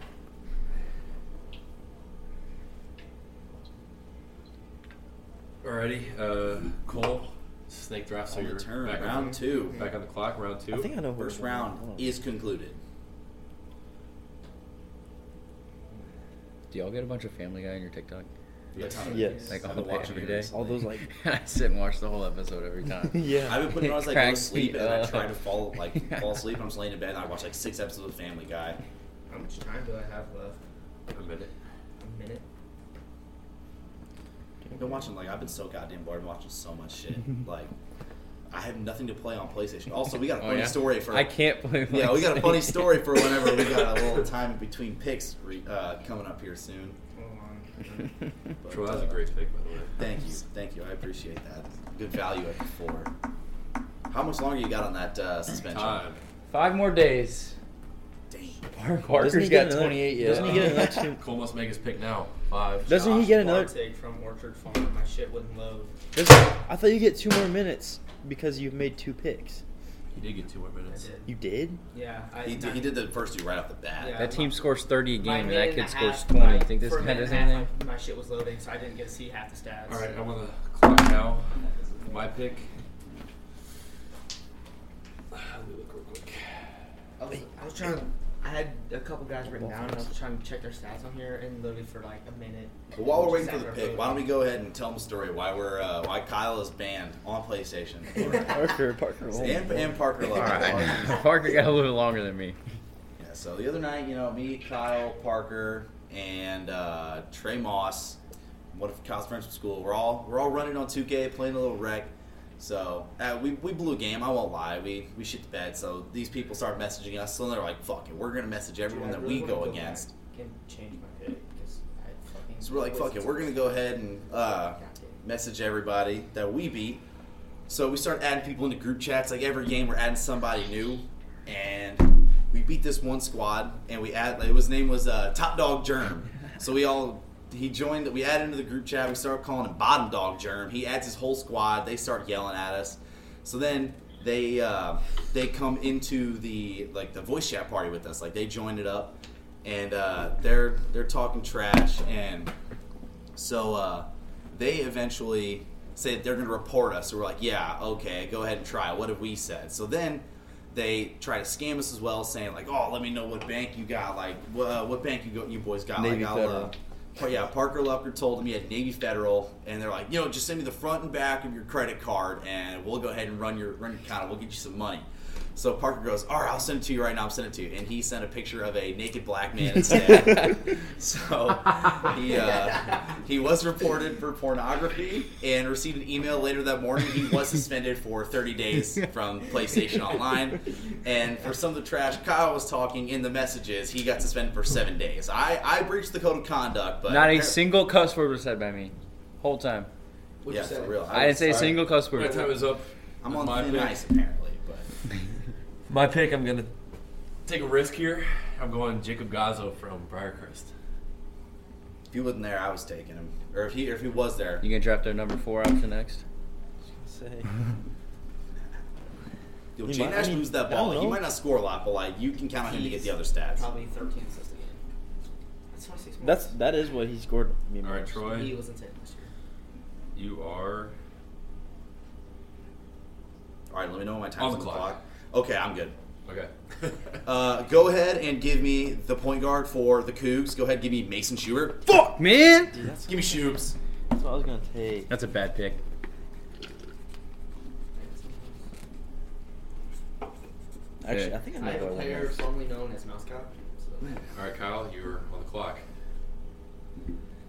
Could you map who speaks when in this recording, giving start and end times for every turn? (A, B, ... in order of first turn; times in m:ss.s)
0:05.6-0:10.9 A
0:08.3-0:09.8 B
0:09.0-0:09.9 C
0:10.7-0:12.2 D
0:11.0-0:12.8 B
0:16.7-0:18.3 E
0:18.7-0:19.1 A
0:18.7-0:20.8 B
0:18.8-0:19.6 C
0:19.1-0:21.1 D
0:19.5-0:26.4 E
0:23.1-0:23.9 D
0:23.4-0:28.8 B
0:29.3-0:30.6 C
0:31.1-0:31.5 A
0:32.0-0:32.4 C
0:34.7-0:35.0 D
0:34.8-0:37.7 B
0:38.5-0:47.0 B
0:40.4-0:43.0 E
0:47.1-0:48.1 C
0:48.6-0:49.2 B
0:48.7-0:49.9 A
0:50.0-0:53.1 B
0:54.1-0:56.0 B
0:55.7-0:56.2 A
0:56.5-0:57.6 E
0:58.3-0:58.7 B
0:58.8-1:01.1 E
0:59.0-1:01.2 D
1:00.2-1:02.9 A
1:02.9-1:03.7 D
1:02.9-1:06.0 C
1:06.1-1:09.6 D
1:10.2-1:11.1 A
1:10.9-1:11.3 C
1:11.3-1:11.8 D
1:11.9-1:12.9 C
1:12.4-1:14.3 B
1:14.0-1:14.6 C
1:14.2-1:17.7 E
1:15.2-1:20.3 C
1:19.9-1:22.7 A
1:21.9-1:22.2 C
1:25.3-1:26.5 A
1:27.2-1:34.3 C
1:32.9-1:38.7 B
1:38.3-1:40.8 D
1:39.3-1:41.3 B
1:40.3-1:42.6 E
1:43.2-1:48.2 B
1:48.7-2:00.1 B
1:58.9-2:05.2 C
2:02.6-2:07.0 B
2:07.7-2:32.5 B
2:33.4-3:17.6 B
2:46.0-2:46.7 E
3:17.0-3:19.9 E
3:20.4-3:21.2 C
3:20.5-3:22.3 B
3:21.1-3:22.5 E
3:21.4-3:24.0 A
3:23.2-3:24.9 B
3:25.9-3:26.7 A
3:27.4-3:30.7 A
3:32.1-3:34.7 B
3:34.6-3:36.2 E
3:36.8-3:37.5 D
3:39.8-3:43.7 B
3:39.8-3:41.3 D
3:42.6-3:44.8 C
3:45.7-3:46.6 C
3:46.2-3:48.4 D
3:47.8-3:48.6 A
3:48.2-3:49.3 C
3:50.2-3:50.9 A
3:53.7-3:56.0 B
3:54.4-3:55.0 A
3:56.2-3:57.2 A
3:57.2-4:02.2 B
4:01.9-4:02.8 E
4:02.8-4:03.4 D
4:03.0-4:03.8 B
4:04.1-4:05.1 D
4:05.1-4:05.8 E
4:08.0-4:08.6 C
4:11.0-4:12.5 D
4:11.1-4:11.4 E
4:11.6-4:14.1 C
4:14.4-4:15.8 A